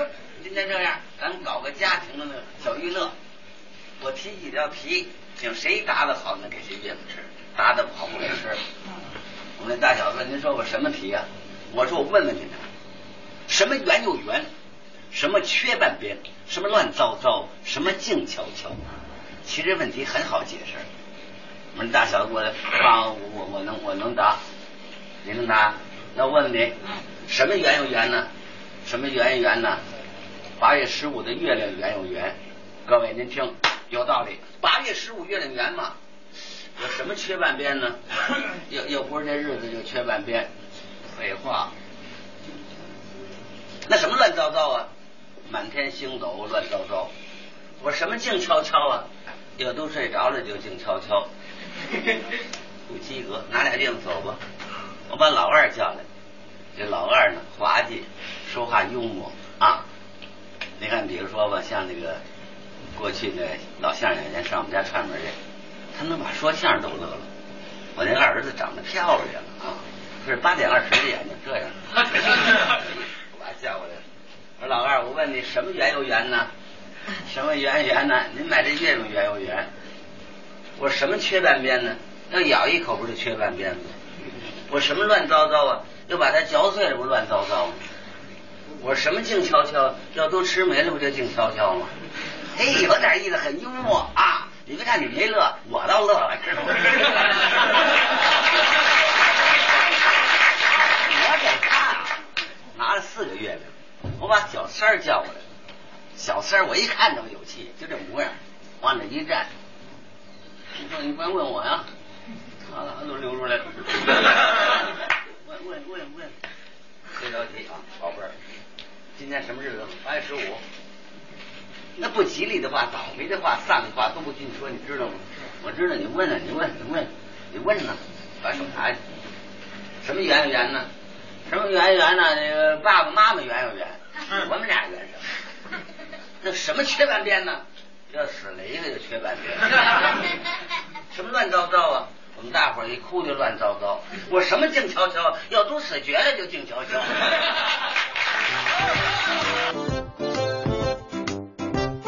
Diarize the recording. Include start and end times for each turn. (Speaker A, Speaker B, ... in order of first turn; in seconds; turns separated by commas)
Speaker A: 0.3-3.1, Speaker A: 4.0-8.6, Speaker A: 9.6-12.7, Speaker A: 13.5-14.5, Speaker A: 15.1-18.8, Speaker A: 19.4-20.9, Speaker A: 21.7-24.4, Speaker A: 25.2-28.3, Speaker A: 28.8-29.8, Speaker A: 30.6-36.0, Speaker A: 36.8-40.5, Speaker A: 41.1-41.7, Speaker A: 43.9-44.9, Speaker A: 45.5-47.1, Speaker A: 47.8-51.3, Speaker A: 52.9-54.4, Speaker A: 55.1-56.0, Speaker A: 56.7-59.9, Speaker A: 60.8-62.2, Speaker A: 62.9-65.4, Speaker A: 65.9-67.3, Speaker A: 68.0-74.0, Speaker A: 74.6-76.5, Speaker A: 77.2-79.7, Speaker A: 80.8-84.0, Speaker A: 84.7-87.8, Speaker A: 88.8-91.9, Speaker A: 92.4-97.5, Speaker A: 100.8-102.2, Speaker A: 102.7-105.5, Speaker A: 106.2-109.5, Speaker A: 110.7-111.9, Speaker A: 112.6-114.8, Speaker A: 115.3-116.4, Speaker A: 117.1-118.3, Speaker A: 119.1-120.6, Speaker A: 122.0-129.0, Speaker A: 130.0-130.9, Speaker A: 131.5-135.2, Speaker A: 136.4-140.3, Speaker A: 141.1-147.5